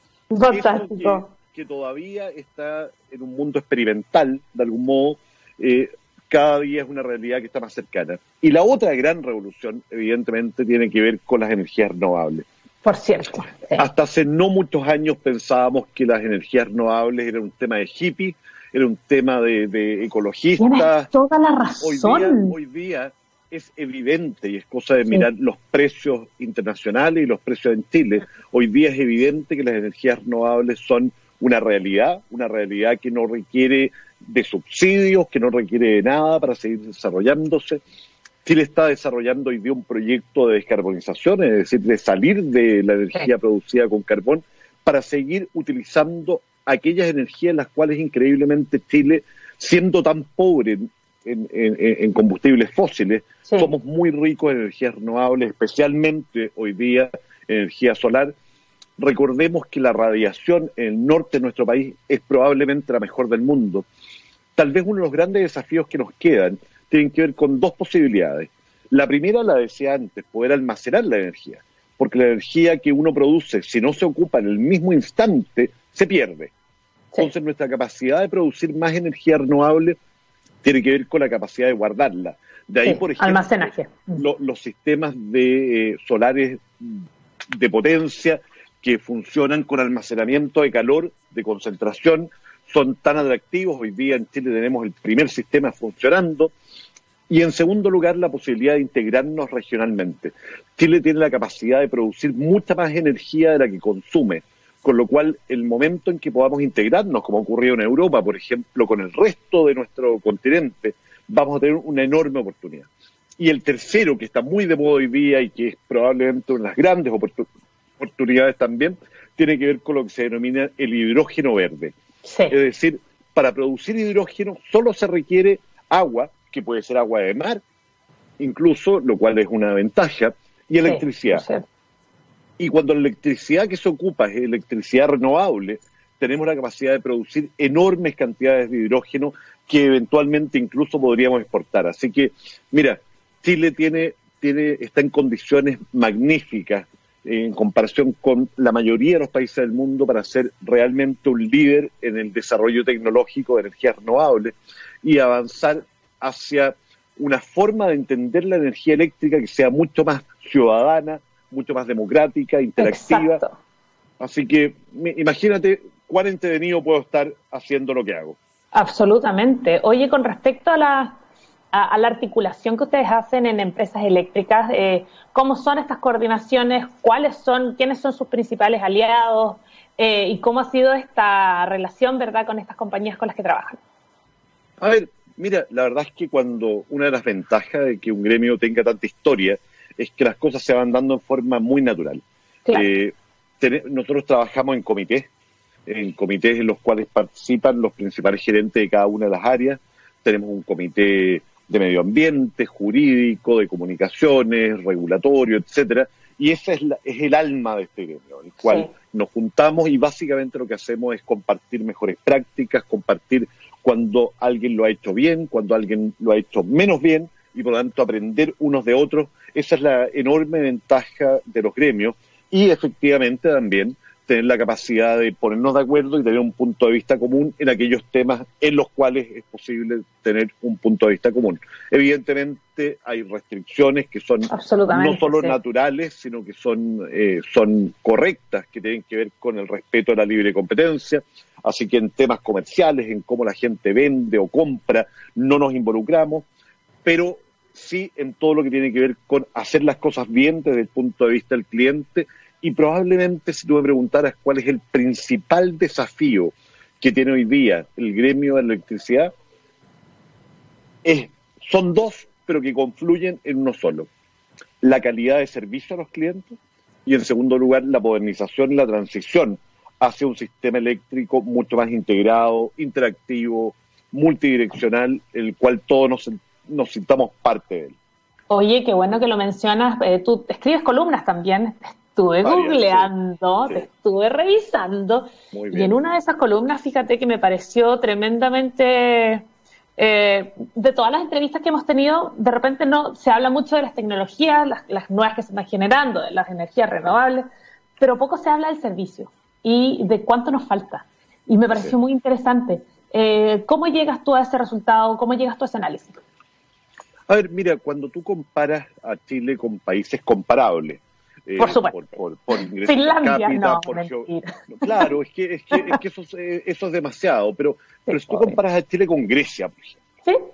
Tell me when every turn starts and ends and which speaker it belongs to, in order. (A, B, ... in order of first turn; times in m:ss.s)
0:00.3-0:01.3 A
0:00.5-0:12.4 B
0:12.8-0:13.8 A
0:13.8-0:21.1 B
0:20.6-0:22.6 A
0:21.8-0:37.8 B
0:38.4-0:58.3 B
0:53.5-0:53.7 A
0:59.0-1:03.8 B
1:04.6-1:16.5 B
1:17.2-1:20.0 B
1:20.6-1:36.5 B
1:22.8-1:24.2 A
1:37.3-1:52.9 B
1:53.4-1:57.5 B
1:58.0-2:02.0 B
2:02.2-2:02.6 A
2:02.5-2:07.6 B
2:08.4-2:11.4 B
2:10.8-2:11.6 A
2:12.6-2:43.4 B
2:42.8-2:43.5 A
2:44.2-2:48.4 B
2:48.7-2:51.2 A
2:51.7-3:03.8 A
3:04.8-3:15.3 B
3:15.8-4:06.4 B
3:28.6-3:28.9 A
3:54.5-3:55.6 A
4:07.0-4:19.3 B
4:21.0-4:24.1 B
4:24.8-4:26.5 B
4:27.0-4:38.0 B
4:38.5-4:49.4 A
4:42.4-4:43.1 B
4:45.5-4:46.0 B
4:50.0-4:57.4 A
4:58.0-5:06.2 A
5:07.3-5:20.0 B
5:11.6-5:12.2 A
5:12.8-5:15.1 A
5:18.1-5:18.6 A